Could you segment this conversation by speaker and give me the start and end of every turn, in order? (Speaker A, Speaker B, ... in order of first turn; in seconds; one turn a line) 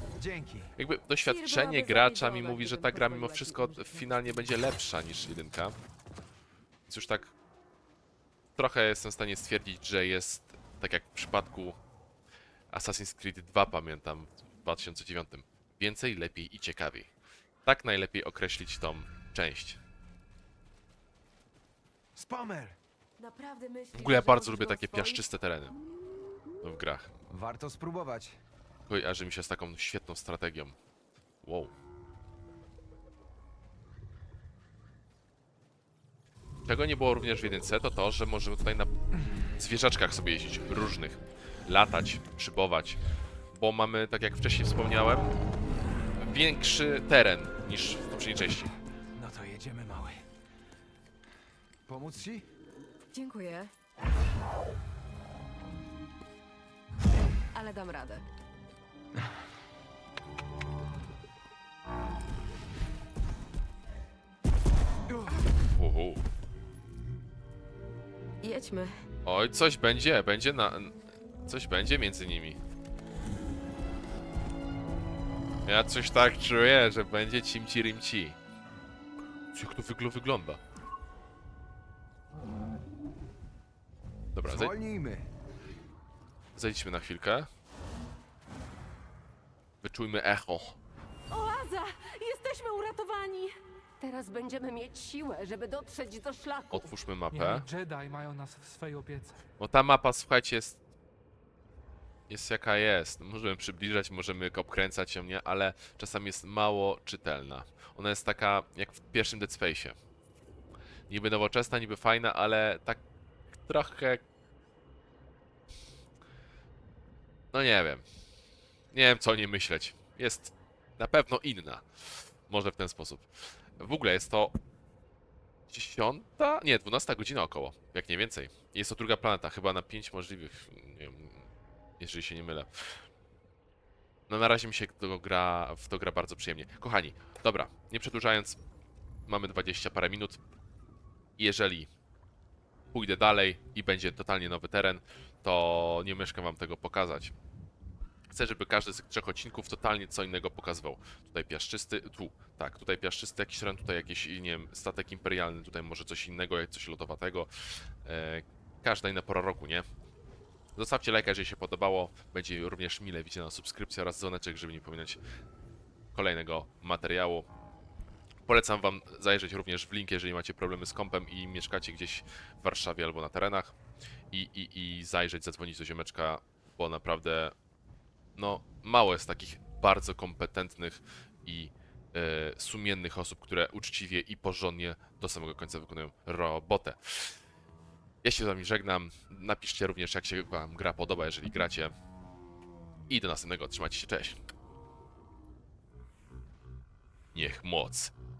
Speaker A: 0.1-0.7
Speaker B: 0.8-5.7
Speaker C: 1.2-4.4
Speaker B: 6.9-7.3
Speaker B: 8.6-11.8
Speaker B: 12.7-17.1
Speaker B: 17.6-19.8
Speaker A: 22.1-22.8
Speaker C: 23.2-25.2
Speaker B: 23.9-25.7
Speaker B: 26.6-27.1
Speaker A: 27.3-28.4
Speaker B: 28.9-30.8
Speaker B: 31.4-31.7
Speaker B: 36.6-38.9
Speaker B: 39.5-43.0
Speaker B: 43.5-45.3
Speaker B: 46.2-48.7
Speaker A: 49.1-50.2
Speaker A: 51.9-52.5
Speaker C: 53.1-53.7
Speaker C: 57.5-58.2
Speaker A: 65.1-65.4
Speaker B: 65.7-66.2
Speaker C: 68.4-68.9
Speaker B: 69.2-72.6
Speaker B: 75.7-78.4
Speaker B: 79.5-80.6
Speaker B: 84.3-84.7
Speaker A: 84.5-85.3
Speaker B: 86.5-87.5
Speaker B: 89.8-90.8
Speaker C: 91.3-96.9
Speaker B: 96.7-97.7
Speaker D: 97.3-99.4
Speaker B: 99.6-100.8
Speaker B: 102.3-110.0
Speaker B: 111.1-113.0
Speaker B: 113.6-114.2
Speaker B: 117.5-118.0
Speaker B: 118.9-124.6
Speaker B: 125.7-133.0
Speaker B: 134.3-138.6
Speaker B: 139.3-140.4
Speaker B: 141.4-141.9
Speaker B: 142.9-147.3
Speaker B: 148.3-159.8
Speaker B: 160.8-165.2
Speaker B: 166.1-167.5
Speaker B: 168.5-173.7
Speaker B: 174.3-177.5
Speaker B: 178.3-187.4
Speaker B: 188.2-191.9
Speaker B: 193.1-194.4
Speaker B: 197.3-198.1